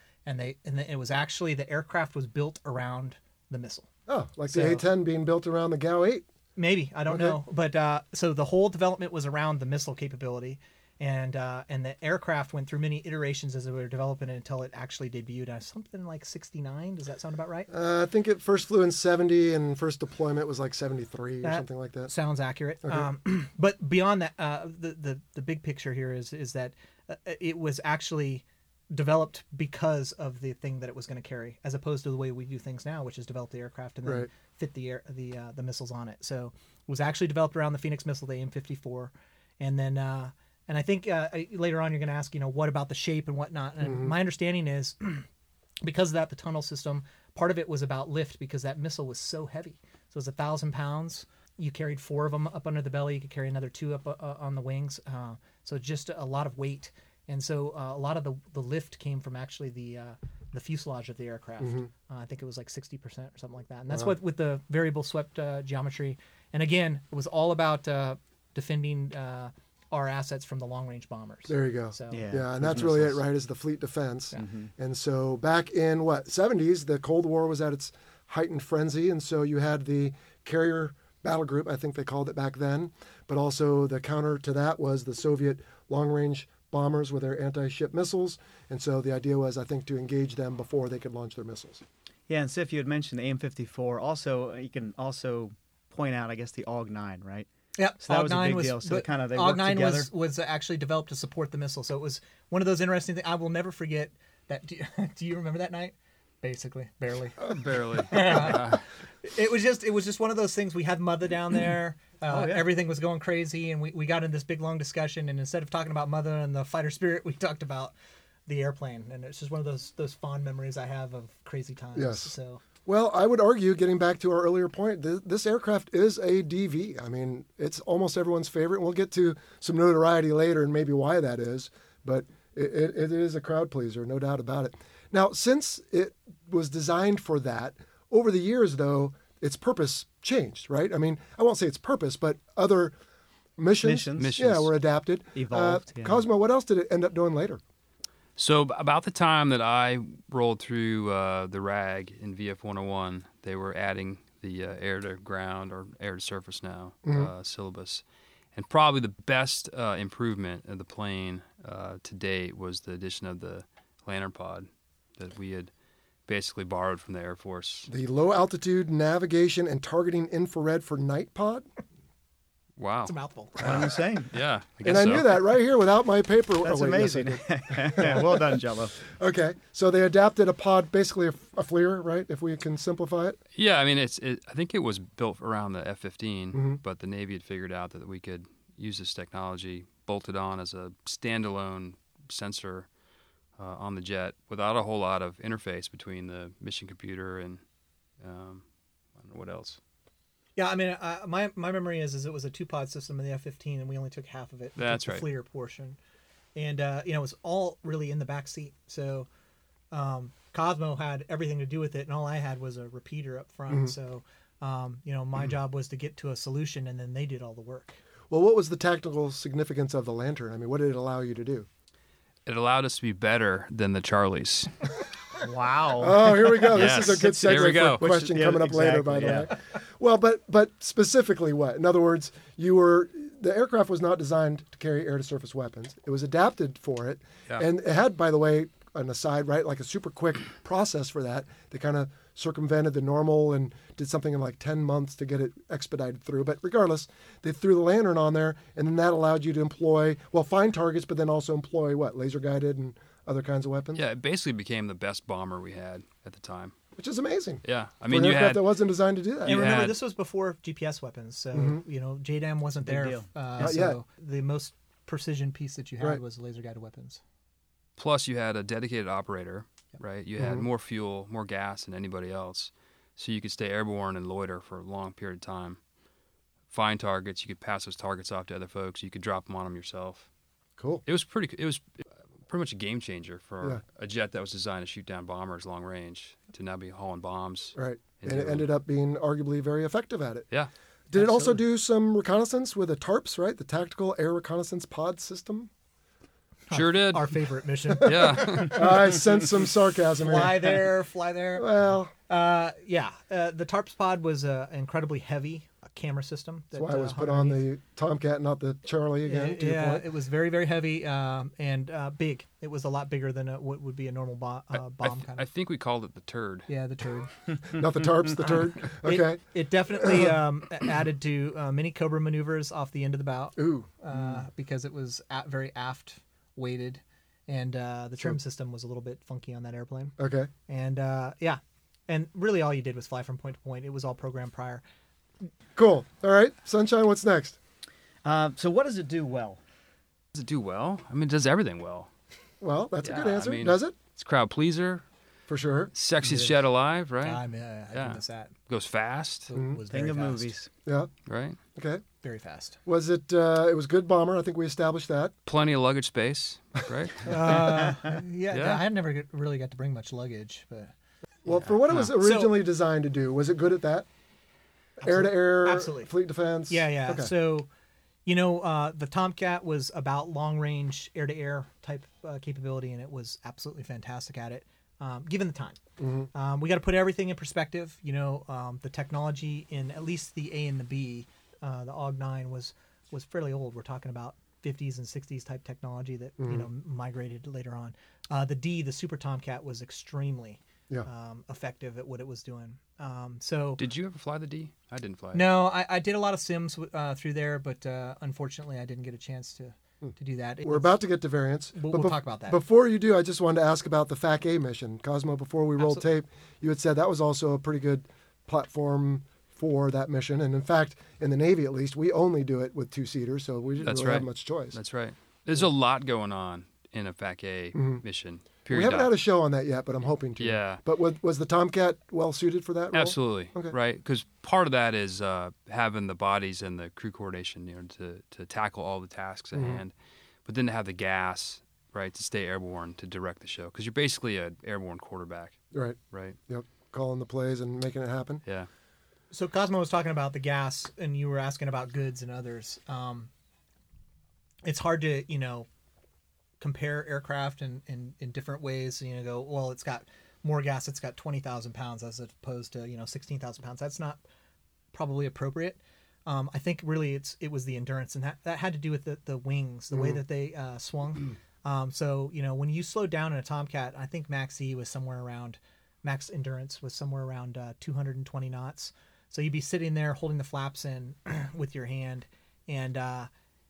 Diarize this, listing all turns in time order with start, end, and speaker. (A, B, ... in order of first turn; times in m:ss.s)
0:00.2-0:03.9 A
0:04.1-0:06.2 B
0:04.5-0:04.8 A
0:06.6-0:17.7 A
0:07.1-0:07.4 B
0:17.7-0:22.1 B
0:21.4-0:45.3 A
0:43.8-0:44.1 B
0:45.8-1:12.3 A
1:01.6-1:01.9 B
1:11.5-1:31.8 B
1:12.1-1:13.2 C
1:14.4-1:14.7 C
1:32.3-1:37.5 C
1:37.8-1:57.9 A
1:38.0-1:40.1 C
1:47.4-1:48.8 D
1:52.3-1:52.7 C
1:58.5-2:02.6 A
2:02.0-2:02.3 B
2:02.8-2:22.9 B
2:23.6-2:27.6 B
2:23.8-2:24.4 C
2:24.2-2:24.7 D
2:25.3-2:26.2 C
2:28.4-2:38.0 D
2:37.0-2:37.3 B
2:38.5-2:45.7 D
2:46.3-2:47.9 D
2:47.9-2:51.6 B
2:52.8-2:55.4 D
2:53.0-2:53.7 A
2:53.6-2:54.3 C
2:54.8-3:03.4 B
2:56.6-2:59.0 C
3:03.5-3:12.9 D
3:06.5-3:06.8 B
3:13.6-3:17.6 D
3:18.2-3:18.6 D
3:19.2-3:19.8 D
3:20.6-3:26.0 A
3:24.8-3:25.2 D
3:26.6-3:29.3 A
3:29.9-3:38.0 A
3:38.3-3:41.7 B
3:42.4-3:44.7 D
3:45.4-3:49.5 C
3:46.0-4:14.0 B
3:46.7-3:48.0 D
4:13.9-4:16.7 D
4:17.0-4:19.7 B
4:17.6-4:18.8 D
4:19.4-4:20.0 D
4:19.4-4:27.2 A
4:21.5-4:21.8 B
4:22.8-4:23.8 C
4:23.6-4:24.0 B
4:28.0-4:35.8 D
4:30.4-4:30.6 B
4:36.7-4:40.3 D
4:40.8-4:41.0 B
4:41.0-4:48.7 D
4:47.8-4:50.5 B
4:51.1-4:55.7 B
4:51.2-4:51.4 C
4:56.7-4:58.9 A
4:56.7-4:57.4 D
4:57.9-5:00.8 B
4:58.0-4:59.2 D
5:00.2-5:01.7 A
5:01.6-5:02.1 B
5:02.3-5:07.6 A
5:06.7-5:10.1 B
5:09.2-5:15.4 A
5:14.8-5:16.7 D
5:16.7-5:17.3 A
5:17.7-5:19.4 B
5:18.4-5:30.1 A
5:19.9-5:20.4 B
5:23.6-5:23.9 B
5:30.2-5:30.5 B
5:30.7-5:34.8 A
5:35.8-5:37.6 B
5:38.2-5:39.6 C
5:40.3-5:42.1 D
5:42.6-5:43.9 B
5:43.0-5:45.0 D
5:45.5-5:45.9 B
5:45.9-5:49.5 D
5:47.2-5:48.5 A
5:49.5-5:50.5 A
5:49.5-5:49.8 B
5:49.9-5:50.7 C
5:51.3-5:51.6 D
5:51.8-5:52.0 B
5:52.2-5:52.8 A
5:52.8-5:55.3 B
5:55.4-5:57.9 D
5:57.2-6:00.9 A
5:57.8-5:58.2 C
5:58.5-5:58.8 D
6:01.4-6:04.0 B
6:01.5-6:02.1 D
6:02.2-6:02.6 A
6:05.0-6:06.1 A
6:05.0-6:07.3 B
6:06.7-6:07.7 A
6:08.2-6:15.8 A
6:16.0-6:16.3 B
6:16.3-6:33.8 A
6:26.4-6:26.7 B
6:33.8-6:35.5 D
6:35.3-6:41.0 A
6:40.6-6:54.8 B
6:41.7-6:42.6 A
6:53.8-6:59.1 D
6:57.7-6:58.0 B
6:58.7-7:03.7 B
7:00.4-7:00.8 D
7:02.9-7:09.9 D
7:09.5-7:09.8 B
7:10.4-7:15.6 D
7:15.7-7:18.4 B
7:16.1-7:16.4 D
7:19.3-7:23.3 A
7:24.6-7:25.7 A
7:26.6-7:34.2 A
7:34.9-7:53.3 A